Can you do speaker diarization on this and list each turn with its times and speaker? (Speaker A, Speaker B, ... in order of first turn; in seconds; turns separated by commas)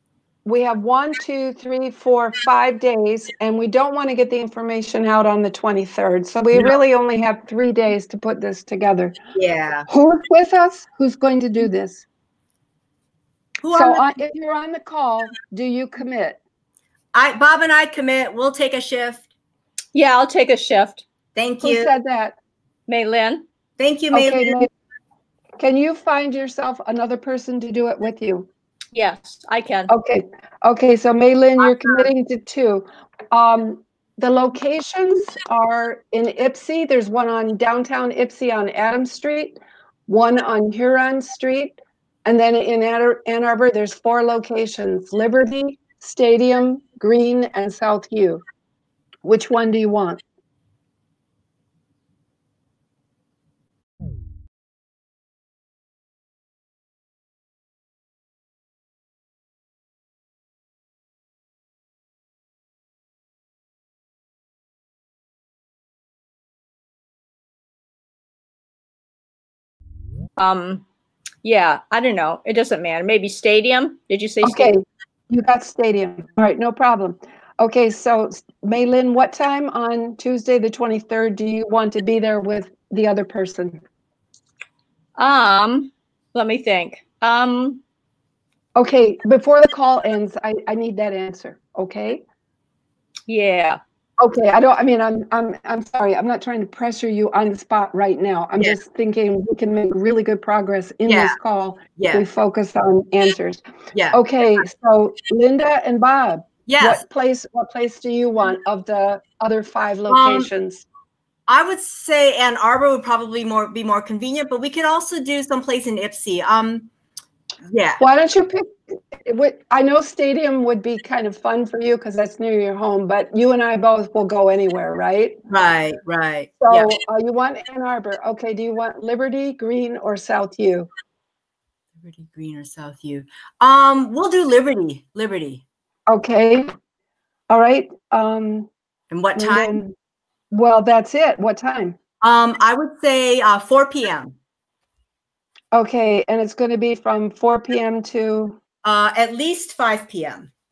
Speaker A: 0.4-9.2, Speaker B: 9.3-9.9, Speaker A: 9.9-12.0, Speaker B: 13.6-14.1, Speaker A: 13.7-16.4, Speaker B: 17.1-19.3, Speaker C: 19.9-21.0, Speaker B: 21.4-21.9, Speaker A: 21.6-22.4, Speaker C: 22.9-23.4, Speaker B: 23.8-24.7, Speaker A: 24.1-24.7, Speaker A: 25.6-28.5, Speaker C: 28.9-29.9, Speaker A: 29.9-48.4, Speaker A: 49.2-50.2, Speaker C: 70.4-70.8, Speaker C: 71.4-74.7, Speaker A: 74.4-83.8, Speaker C: 85.2-87.8, Speaker A: 88.8-92.2, Speaker C: 93.3-93.8, Speaker A: 94.2-110.8, Speaker B: 101.0-101.4, Speaker B: 102.0-102.2, Speaker B: 103.9-104.2, Speaker B: 106.7-107.0, Speaker B: 110.1-110.5, Speaker B: 111.5-116.9, Speaker B: 117.7-118.0, Speaker A: 118.0-125.4, Speaker B: 125.5-126.9, Speaker A: 126.6-130.9, Speaker B: 132.0-135.6, Speaker A: 136.1-136.7, Speaker A: 137.5-138.7, Speaker B: 139.1-139.8, Speaker A: 139.3-139.9, Speaker A: 140.5-142.0, Speaker B: 142.2-144.3, Speaker A: 145.7-148.6, Speaker B: 148.8-150.5